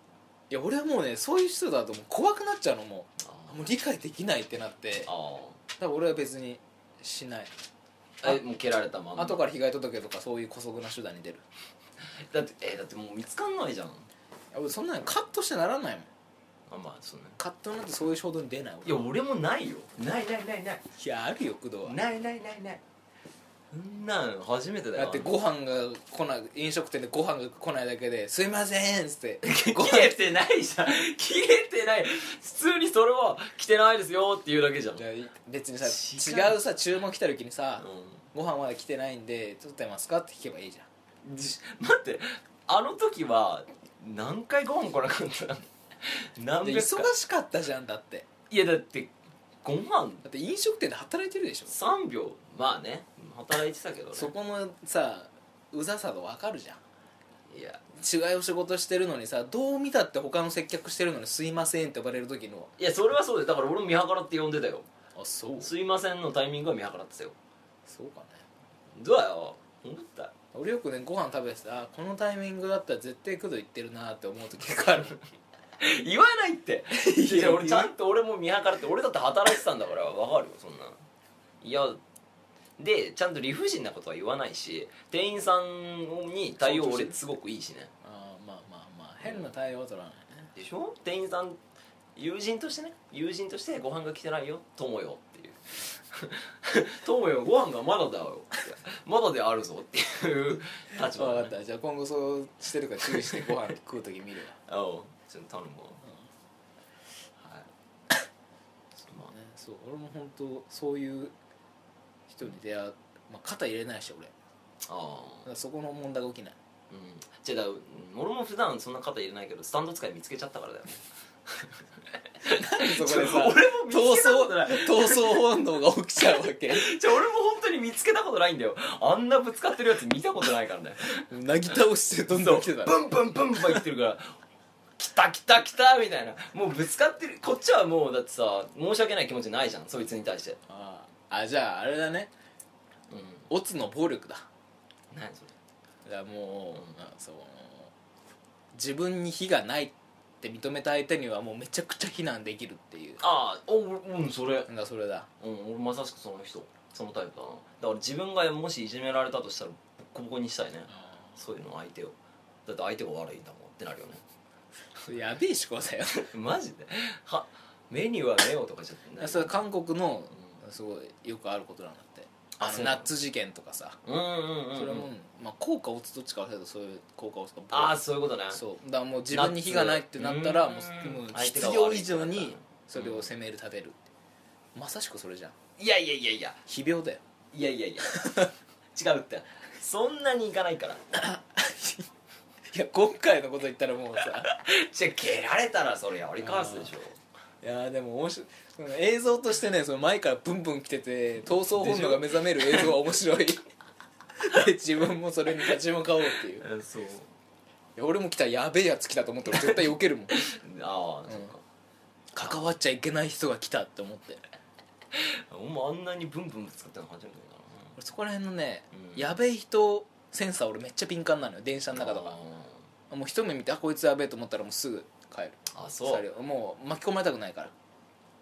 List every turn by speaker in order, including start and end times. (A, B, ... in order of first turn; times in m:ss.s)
0:00.5-0:05.1 A
0:03.2-0:03.7 B
0:05.0-0:05.6 B
0:05.8-0:07.5 A
0:08.2-0:09.4 B
0:09.2-0:11.4 A
0:12.2-0:14.1 B
0:14.5-0:16.1 A
0:16.7-0:17.4 B
0:17.4-0:19.0 A
0:18.8-0:20.8 B
0:21.0-0:22.0 A
0:21.8-0:22.8 B
0:23.7-0:25.3 B
0:24.9-0:30.1 A
0:29.4-0:35.0 B
0:35.0-0:40.9 A
0:35.8-0:36.6 B
0:37.8-0:38.2 B
0:41.2-0:47.1 B
0:46.6-0:48.2 A
0:48.5-0:50.2 B
0:50.2-0:51.7 A
0:51.7-0:54.3 B
0:54.1-0:56.8 A
0:57.5-0:57.8 B
0:57.9-1:02.7 A
1:02.8-1:04.9 B
1:05.2-1:05.7 A
1:05.6-1:07.3 B
1:07.8-1:08.4 A
1:08.9-1:10.3 B
1:10.5-1:15.2 A
1:15.8-1:21.0 B
1:17.0-1:17.9 A
1:21.6-1:22.0 B
1:22.8-1:27.9 B
1:26.6-1:27.2 A
1:28.0-1:30.5 A
1:29.2-1:29.5 B
1:30.6-1:31.6 B
1:32.2-1:41.5 B
1:41.1-1:44.6 A
1:43.2-1:43.6 B
1:44.6-1:46.0 B
1:47.4-1:47.7 B
1:49.0-1:51.3 A
1:52.3-1:54.3 A
1:54.8-1:55.5 B
1:55.4-1:56.6 A
1:56.9-2:01.8 B
2:02.4-2:05.6 B
2:02.4-2:06.9 A
2:06.2-2:11.2 B
2:11.0-2:13.8 A
2:12.3-2:14.3 B
2:15.0-2:20.6 B
2:20.7-2:22.3 A
2:23.1-2:23.5 B
2:23.5-2:24.4 A
2:25.1-2:25.5 B
2:26.0-2:27.9 A
2:28.7-2:33.2 A
2:33.2-2:34.7 B
2:34.7-2:35.3 A
2:35.4-2:44.2 B
2:45.0-2:46.3 A
2:46.1-2:49.5 B
2:49.2-2:54.0 A
2:52.5-2:53.1 B
2:54.0-2:55.1 B
2:54.7-2:58.0 A
2:57.7-2:58.6 B
2:58.5-3:04.0 A
2:59.3-3:03.3 B
3:04.7-3:05.5 A
3:05.8-3:06.6 B
3:06.6-3:07.2 A
3:07.5-3:08.4 B
3:08.1-3:08.5 A
3:08.9-3:11.0 B
3:11.1-3:12.1 A
3:12.7-3:14.5 A
3:14.4-3:17.2 B
3:16.4-3:16.9 A
3:17.6-3:23.6 A
3:21.5-3:23.0 B
3:24.4-3:26.6 A
3:26.4-3:27.3 B
3:28.0-3:30.4 A
3:29.5-3:31.6 B
3:31.3-3:31.5 A
3:32.3-3:34.4 A
3:35.1-3:38.0 B
3:38.0-3:42.4 A
3:38.9-3:39.3 B
3:41.9-3:42.8 B
3:43.1-3:47.7 A
3:45.7-3:46.2 B